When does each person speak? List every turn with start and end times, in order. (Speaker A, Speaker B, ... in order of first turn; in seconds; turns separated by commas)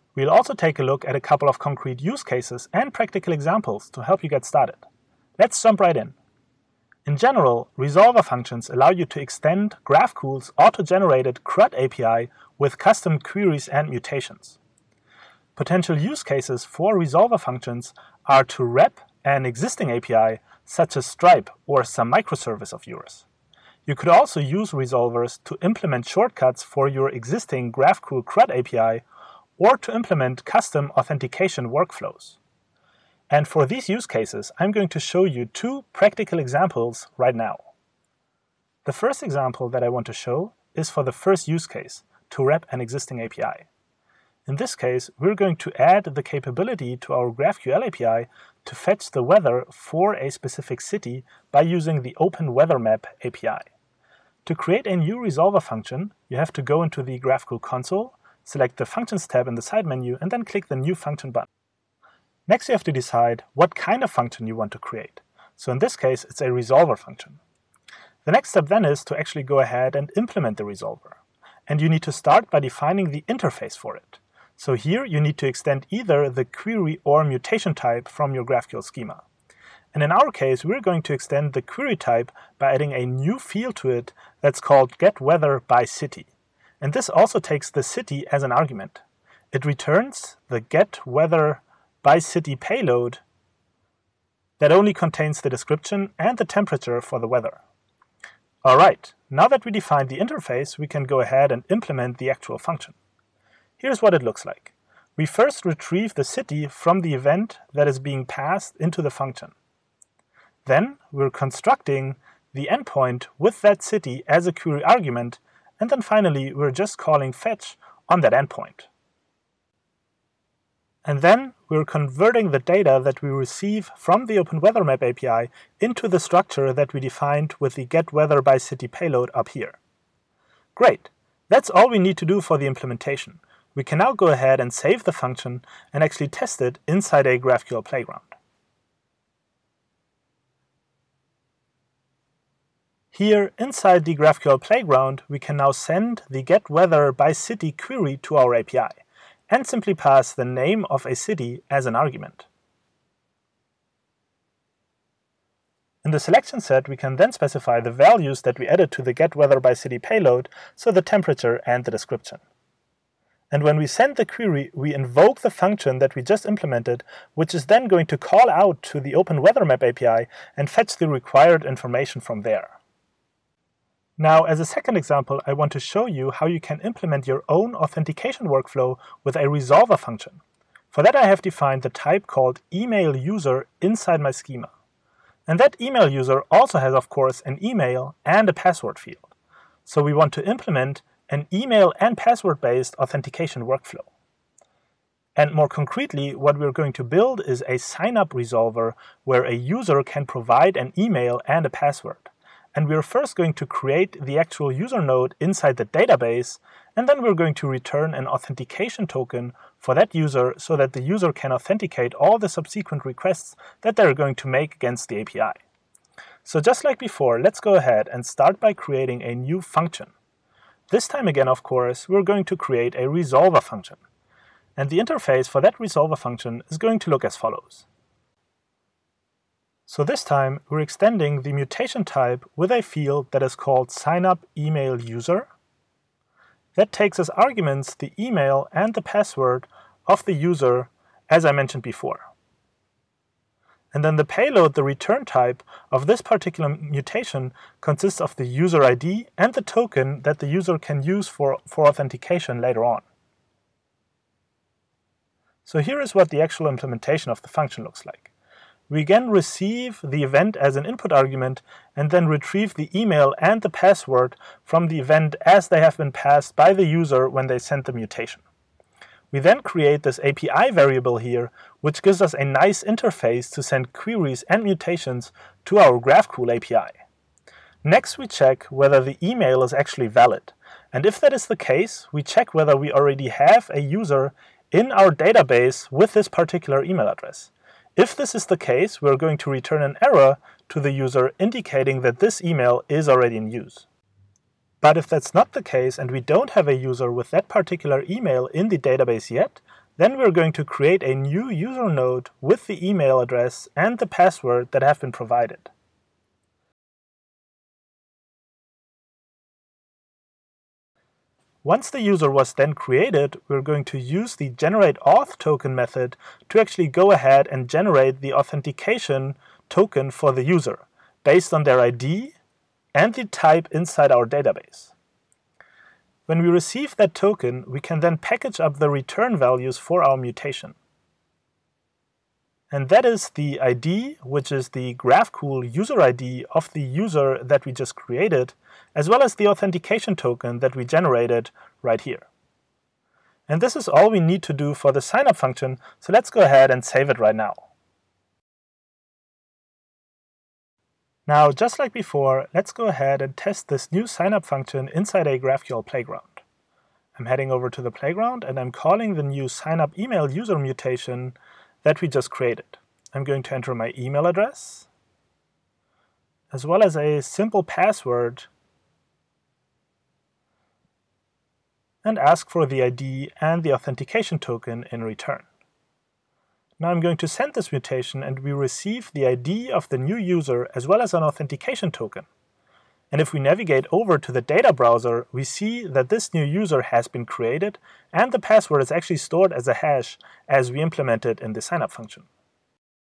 Speaker A: 0.1-4.8, Speaker A: 5.4-6.2, Speaker A: 7.1-14.6, Speaker A: 15.6-23.3, Speaker A: 23.9-29.0, Speaker A: 29.6-32.4, Speaker A: 33.3-37.6, Speaker A: 38.9-43.7, Speaker A: 44.5-53.7, Speaker A: 54.5-61.5, Speaker A: 62.5-67.4, Speaker A: 68.2-79.2, Speaker A: 79.9-86.3, Speaker A: 86.8-93.2, Speaker A: 94.6-97.6, Speaker A: 98.6-103.0, Speaker A: 103.8-109.5, Speaker A: 110.7-118.9, Speaker A: 121.0-129.8, Speaker A: 130.8-138.3, Speaker A: 143.1-152.5, Speaker A: 156.0-162.4, Speaker A: 163.5-172.8, Speaker A: 174.2-184.7, Speaker A: 185.5-189.3, Speaker A: 189.9-194.1, Speaker A: 195.4-215.6, Speaker A: 216.4-220.1, Speaker A: 220.9-224.0, Speaker A: 224.8-227.9, Speaker A: 229.9-235.5, Speaker A: 236.8-242.2, Speaker A: 243.9-253.0, Speaker A: 255.7-258.3, Speaker A: 258.9-268.4, Speaker A: 269.3-276.9, Speaker A: 277.8-293.9, Speaker A: 294.8-305.7, Speaker A: 311.6-322.4, Speaker A: 322.9-324.9, Speaker A: 326.3-330.8, Speaker A: 332.7-342.3, Speaker A: 343.5-347.6, Speaker A: 351.3-356.4, Speaker A: 357.2-364.9, Speaker A: 366.5-368.5, Speaker A: 372.0-375.5, Speaker A: 376.8-382.3, Speaker A: 383.1-392.3